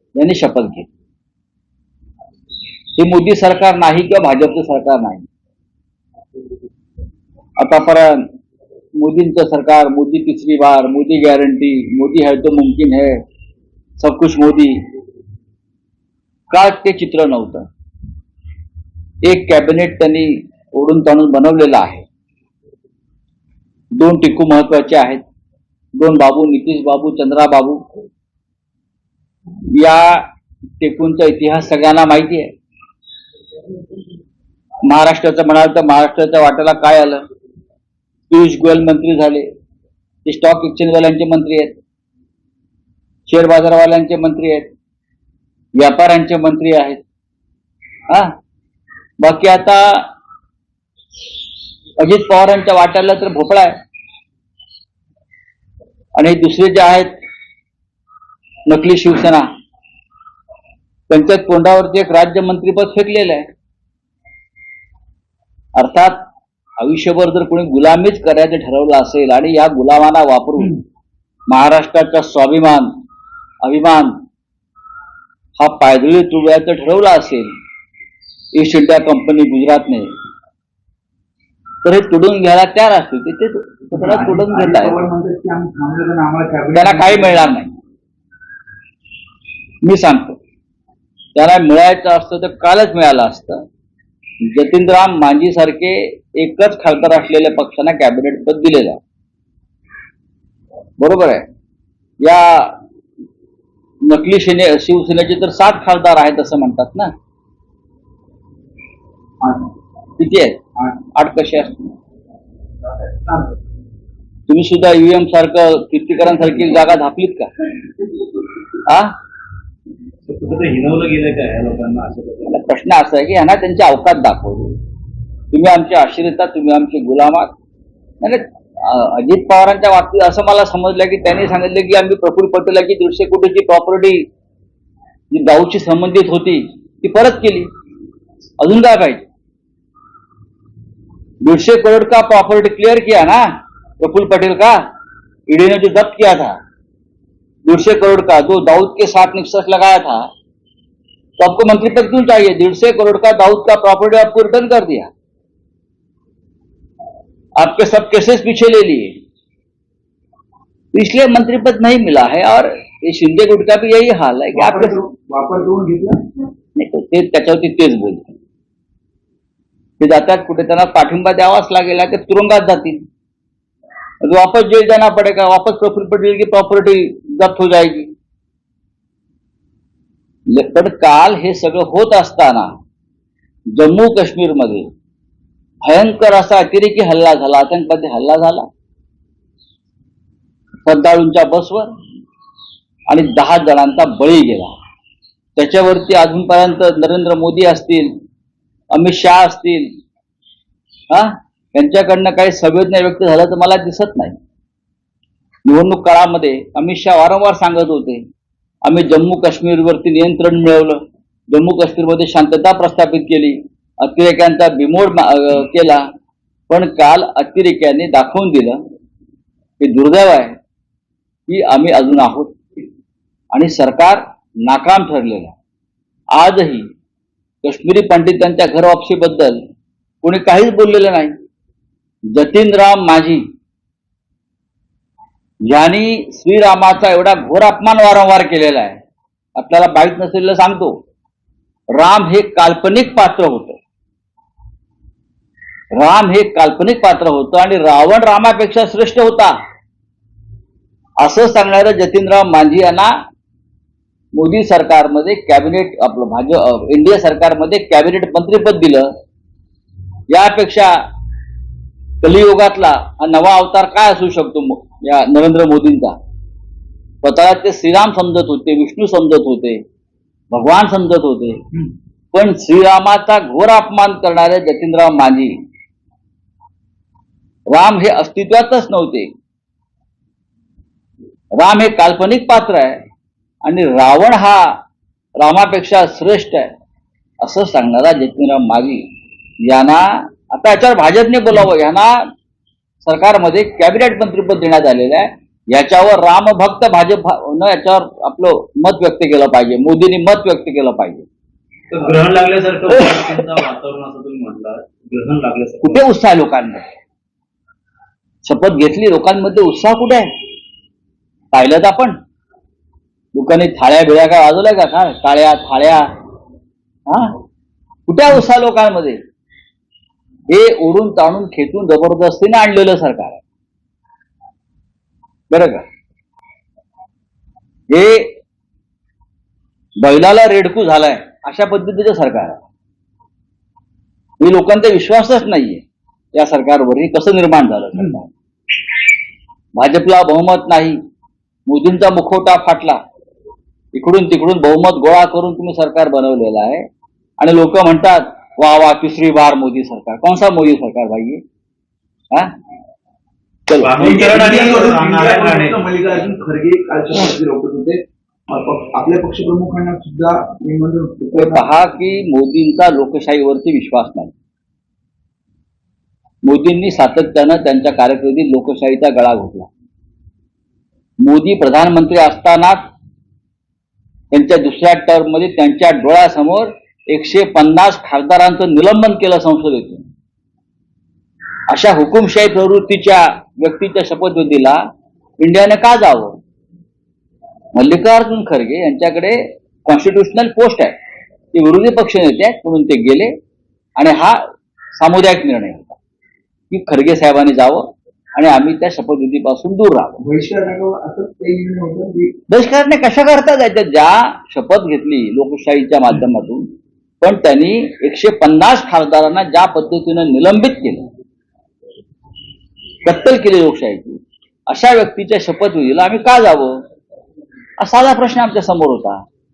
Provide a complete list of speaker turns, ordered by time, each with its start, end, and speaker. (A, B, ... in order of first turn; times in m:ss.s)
0:00.2-0:00.9 A
0:03.0-0:05.3 A
0:07.6-0:08.2 A
0:09.0-0:13.2 A
0:14.0-0:14.8 A
0:16.5-0:17.7 A
0:19.2-0:22.1 A
0:24.0-0:25.2 A
0:26.0-0:27.8 A
0:29.7-0:30.3 A
0:30.8-0:32.5 A
0:34.9-0:37.2 A
0:38.3-0:39.5 A
0:40.2-0:41.8 A
0:43.3-0:44.7 A
0:45.8-0:47.0 A
0:48.1-0:48.4 A
0:49.2-0:50.1 A
0:52.0-0:53.8 A
0:56.2-0:57.1 A
0:58.7-0:59.5 A
1:01.1-1:03.5 A
1:05.8-1:06.2 A
1:06.8-1:10.8 A
1:11.5-1:12.9 A
1:13.6-1:14.2 A
1:15.6-1:17.5 A
1:18.6-1:20.1 A
1:21.8-1:25.0 A
1:23.9-1:27.5 B
1:26.8-1:27.8 A
1:29.8-1:30.4 A
1:31.4-1:33.6 A
1:34.4-1:39.0 A
1:41.0-1:41.5 A
1:42.2-1:42.8 A
1:44.0-1:47.1 A
1:49.4-1:49.7 B
1:50.2-1:50.6 A
1:51.1-1:51.9 A
1:54.5-1:57.5 A
1:58.9-1:59.1 A
2:00.3-2:02.5 C
2:02.5-2:04.8 A
2:05.5-2:07.5 A
2:08.2-2:14.3 A
2:15.3-2:17.7 A
2:18.6-2:19.2 A
2:21.4-2:23.5 A
2:24.0-2:24.8 A
2:25.5-2:26.6 A
2:27.6-2:30.3 A
2:31.4-2:35.1 A
2:37.6-2:39.1 A
2:40.9-2:45.0 A
2:44.5-2:46.2 B
2:46.8-2:48.4 A
2:50.0-2:53.0 A
2:54.2-2:58.1 A
3:00.5-3:02.8 A
3:03.8-3:04.9 A
3:05.8-3:08.7 A
3:10.8-3:11.9 A
3:13.1-3:14.7 A
3:15.6-3:18.1 A
3:18.9-3:19.9 A
3:21.1-3:24.4 A
3:25.6-3:28.2 A
3:28.8-3:36.1 A
3:36.7-3:38.8 A
3:39.8-3:40.6 A
3:41.5-3:42.8 A
3:43.5-3:45.6 A
3:46.4-3:46.9 A
3:47.6-3:49.6 A
3:50.2-3:51.4 A
3:52.3-3:53.4 A
3:55.6-3:59.0 A
3:59.6-4:01.0 A
4:02.0-4:03.8 A
4:05.9-4:09.6 A
4:11.2-4:13.1 A
4:14.4-4:19.1 A
4:20.3-4:21.0 A
4:22.2-4:26.2 A
4:27.2-4:29.8 A
4:30.5-4:31.6 A
4:32.3-4:35.6 A
4:37.7-4:39.3 A
4:41.6-4:43.0 A
4:43.6-4:44.8 A
4:45.4-4:46.7 A
4:47.4-4:49.0 A
4:49.6-4:52.3 A
4:53.0-5:01.3 A
5:01.9-5:06.0 C
5:05.8-5:06.9 A
5:08.4-5:10.3 A
5:11.5-5:12.2 A
5:13.4-5:16.1 A
5:17.1-5:17.4 A
5:18.1-5:19.2 A
5:20.5-5:23.4 A
5:25.5-5:25.8 A
5:27.9-5:28.4 A
5:30.0-5:32.6 A
5:34.4-5:35.8 A
5:36.3-5:38.3 A
5:39.8-5:41.0 A
5:41.7-5:43.0 A
5:43.9-5:46.8 A
5:47.4-5:51.4 A
5:53.7-5:54.3 A
5:53.8-5:55.8 C
5:54.0-6:01.6 B
6:01.4-6:04.3 A
6:06.4-6:09.7 A
6:11.2-6:12.9 A
6:14.3-6:20.1 A
6:21.7-6:24.8 A
6:25.4-6:26.4 A
6:27.7-6:31.0 A
6:31.5-6:33.3 A
6:34.0-6:34.4 A
6:35.0-6:36.0 A
6:36.7-6:37.8 A
6:38.4-6:40.2 A
6:40.2-6:42.3 B
6:42.5-6:46.7 A
6:47.2-6:51.0 A
6:53.0-6:56.8 A
6:57.8-6:59.2 A